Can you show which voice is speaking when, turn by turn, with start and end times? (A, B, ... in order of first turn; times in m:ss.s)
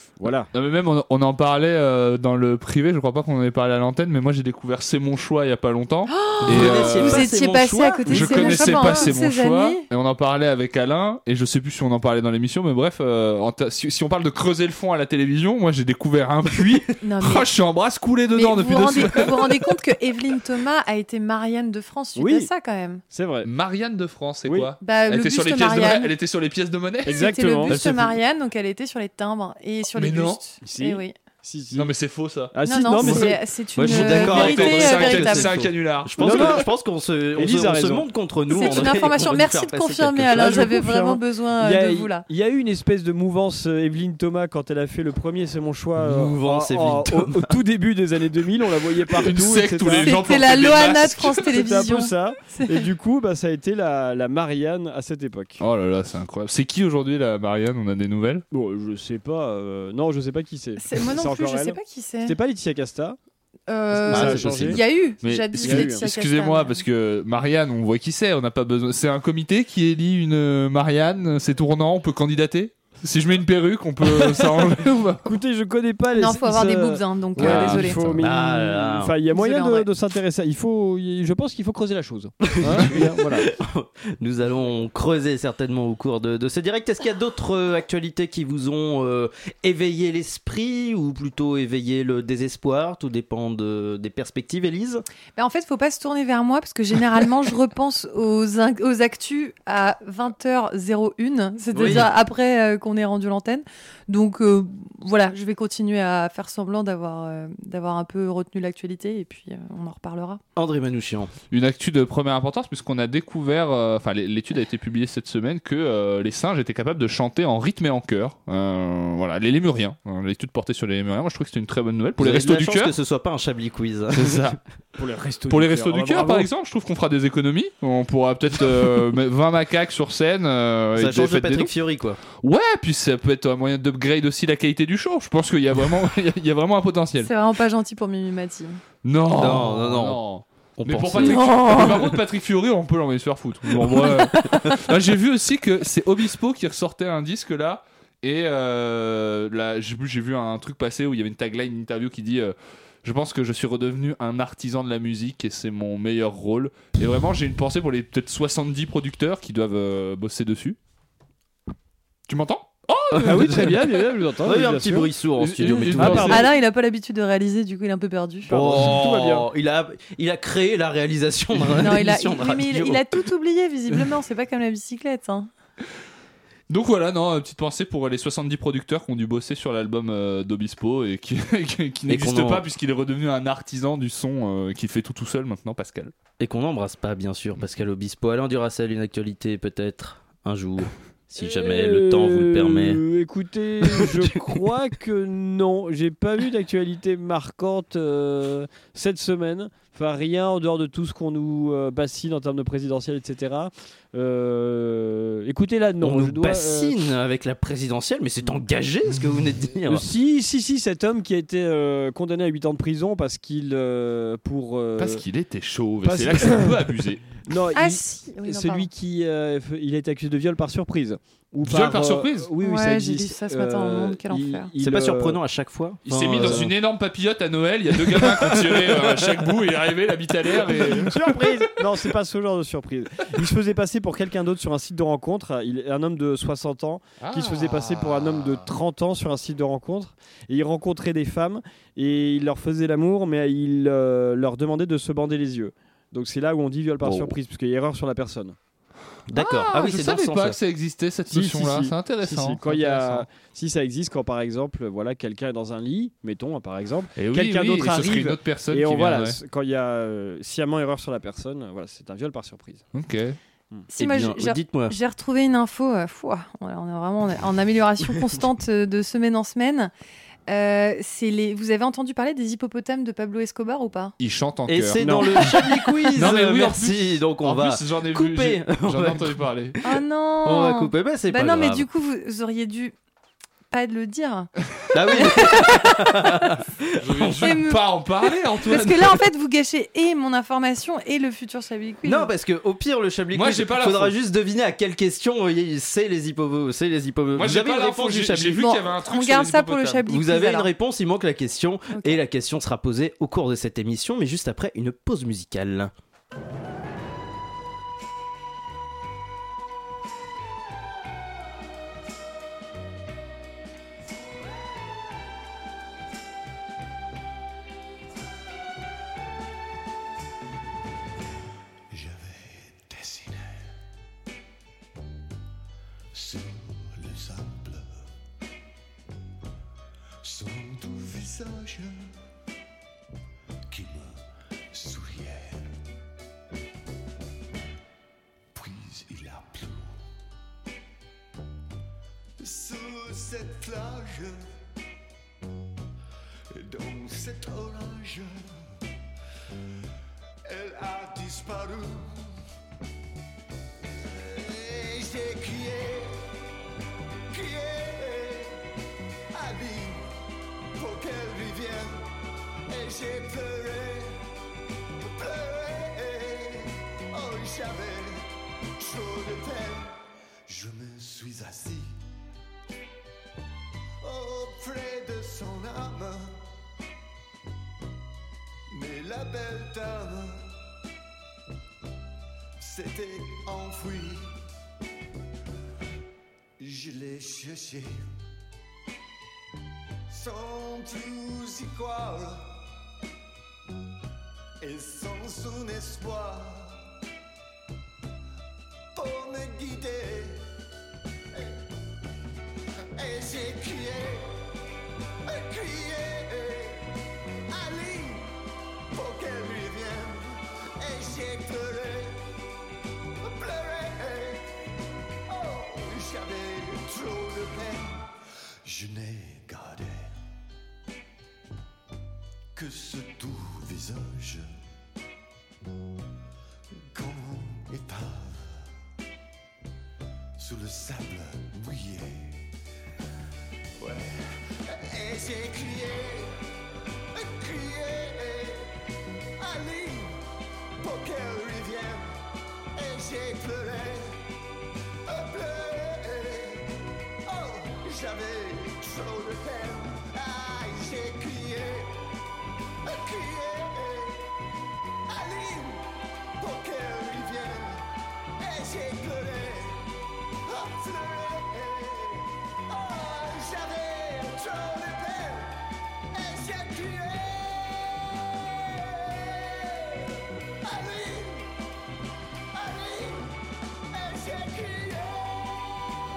0:00.2-0:00.5 A
0:00.5-0:07.3 B
0:06.1-0:09.8 C
0:06.4-0:09.1 D
0:08.1-0:19.7 B
0:17.0-0:17.5 C
0:18.3-0:23.0 C
0:22.2-0:22.5 A
0:23.1-0:23.5 A
0:23.4-0:27.4 B
0:24.4-0:24.7 A
0:24.8-0:26.1 C
0:27.0-0:27.8 A
0:27.1-0:31.1 C
0:27.7-0:28.1 D
0:29.9-0:30.4 B
0:30.6-0:31.9 A
0:31.7-0:33.2 B
0:32.5-0:33.4 A
0:32.6-0:35.6 C
0:33.7-0:40.7 D
0:33.8-0:36.6 B
0:36.2-0:36.7 A
0:37.4-0:38.1 A
0:38.5-0:42.2 C
0:40.3-0:50.1 A
0:46.0-0:47.5 D
0:49.2-0:51.5 B
0:50.0-0:52.9 C
0:51.4-0:55.6 A
0:55.6-0:58.4 B
0:58.5-1:03.2 A
1:00.8-1:02.4 C
1:03.7-1:06.8 C
1:03.9-1:04.8 A
1:04.1-1:04.8 D
1:05.2-1:15.2 B
1:05.6-1:06.0 A
1:14.0-1:14.6 A
1:15.2-1:23.5 A
1:16.1-1:18.1 C
1:17.4-1:17.9 B
1:18.2-1:19.1 D
1:19.3-1:19.9 C
1:22.5-1:35.0 D
1:35.4-1:50.4 C
1:41.7-1:42.1 D
1:50.6-1:51.3 D
1:51.5-2:02.9 B
2:02.2-2:04.5 D
2:04.1-2:04.6 B
2:05.0-2:06.5 A
2:05.5-2:11.7 B
2:11.0-2:12.2 D
2:12.3-2:17.3 B
2:17.2-2:18.8 C
2:19.0-2:40.8 B
2:19.3-2:20.2 D
2:20.8-2:22.0 D
2:24.4-2:24.7 D
2:42.3-2:43.8 B
2:43.2-2:45.1 A
2:44.4-2:46.4 D
2:45.4-2:46.4 B
2:46.0-2:46.5 A
2:46.3-2:48.5 C
2:48.5-2:49.5 A
2:48.5-2:53.0 D
2:51.7-2:55.5 C
2:56.7-3:06.1 B
3:02.1-3:02.6 D
3:06.4-3:13.0 D
3:11.4-3:27.0 A
3:26.0-3:30.0 D
3:29.8-3:35.2 A
3:35.0-3:37.2 B
3:36.0-3:36.9 A
3:37.4-3:45.4 A
3:37.7-3:38.9 C
3:41.6-3:42.5 B
3:42.6-3:44.7 C
3:44.8-3:46.7 D
3:46.1-3:51.5 B
3:46.4-3:46.7 A
3:48.2-3:49.0 A
3:50.6-4:08.6 A
3:57.2-3:58.6 B
4:07.0-4:07.4 B
4:09.3-4:10.6 D
4:09.3-4:13.3 B
4:11.3-4:22.8 A
4:17.2-4:19.4 B
4:22.9-4:23.4 B
4:23.9-4:29.9 C
4:24.0-4:25.0 D
4:30.5-4:34.1 C
4:34.2-4:35.6 B
4:34.7-4:39.4 D
4:35.0-4:35.3 A
4:36.1-4:39.8 B
4:39.8-4:42.9 C
4:40.4-4:41.8 D
4:43.7-4:44.5 C
4:44.9-4:47.4 D
4:45.1-4:46.4 C
4:47.0-4:49.2 B
4:47.3-4:52.3 C
4:52.0-4:58.7 D
4:53.3-4:54.1 B
4:57.3-5:00.0 B
4:58.5-5:00.7 C
5:00.1-5:05.9 D
5:01.9-5:02.2 C
5:21.9-5:23.8 E
5:26.1-5:28.1 E
5:30.2-5:32.1 E
5:33.7-5:35.8 E
5:38.5-5:40.0 E
5:42.4-5:44.4 E
5:46.5-5:48.7 E
5:50.5-5:52.3 E
5:54.0-5:56.3 E
5:57.3-5:58.6 E
5:59.3-6:00.1 E
6:00.8-6:02.1 E
6:02.7-6:04.2 E
6:05.0-6:12.0 E
6:14.0-6:16.4 E
6:18.7-6:20.5 E
6:22.6-6:24.4 E
6:26.6-6:28.2 E
6:30.1-6:32.6 E
6:34.6-6:36.9 E
6:38.9-6:40.5 E
6:41.3-6:41.6 E
6:43.0-6:44.4 E
6:45.2-6:46.9 E
6:47.5-6:48.4 E
6:48.9-6:52.2 E
6:53.2-6:54.6 E
6:55.3-6:58.1 E
6:58.6-7:00.2 E
7:02.5-7:04.5 E
7:06.9-7:08.7 E
7:10.4-7:12.5 E
7:13.8-7:16.4 E
7:17.1-7:18.8 E
7:19.4-7:20.2 E
7:20.8-7:22.2 E
7:22.7-7:24.2 E
7:25.0-7:32.0 E
7:32.8-7:34.3 E
7:35.1-7:37.9 E
7:38.4-7:39.9 E
7:40.4-7:45.6 E
7:46.1-7:51.5 E
7:52.5-7:53.4 E
7:53.9-7:55.9 E